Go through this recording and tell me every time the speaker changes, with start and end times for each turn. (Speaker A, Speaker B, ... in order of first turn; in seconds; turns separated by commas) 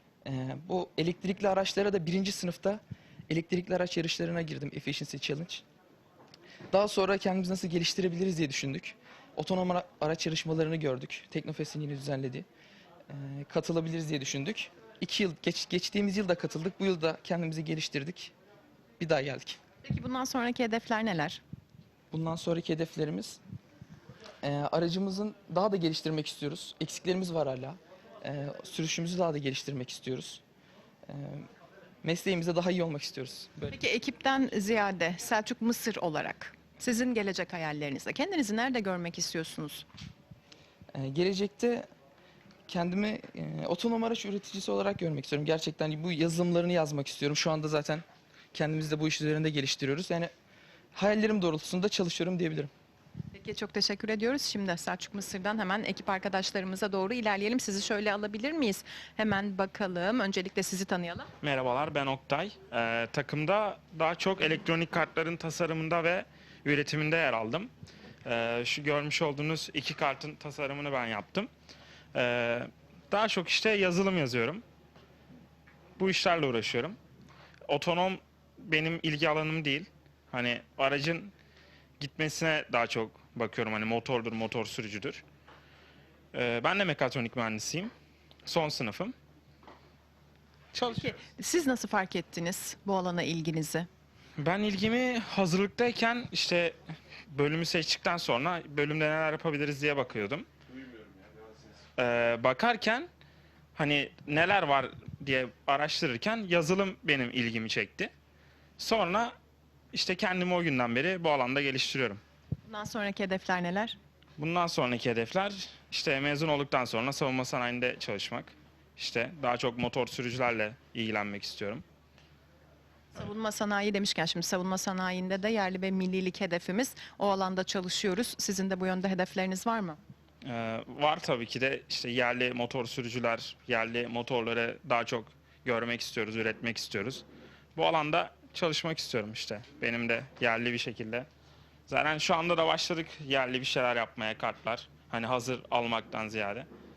Speaker A: 0.2-5.7, Speaker A: 6.7-12.5, Speaker A: 13.1-18.3, Speaker A: 19.0-19.6, Speaker B: 19.8-21.4, Speaker A: 22.1-23.4, Speaker A: 24.4-30.4, Speaker A: 31.1-31.5, Speaker A: 32.0-33.8, Speaker B: 33.7-39.9, Speaker A: 40.9-41.9, Speaker A: 42.7-50.3, Speaker A: 50.9-52.7, Speaker B: 53.3-61.3, Speaker C: 61.4-67.7, Speaker C: 68.2-71.5, Speaker C: 72.1-74.6, Speaker C: 76.0-77.0, Speaker C: 77.7-81.3, Speaker C: 82.0-85.2, Speaker C: 86.3-87.9, Speaker C: 88.5-89.1, Speaker B: 90.8-93.9, Speaker C: 94.4-96.8, Speaker C: 97.3-100.5, Speaker C: 102.0-103.1, Speaker C: 103.8-108.1, Speaker C: 108.8-109.4, Speaker C: 109.9-112.2, Speaker B: 112.7-114.0, Speaker C: 114.4-121.8, Speaker B: 123.2-130.0, Speaker C: 130.4-137.2, Speaker C: 137.8-141.3, Speaker C: 141.9-146.7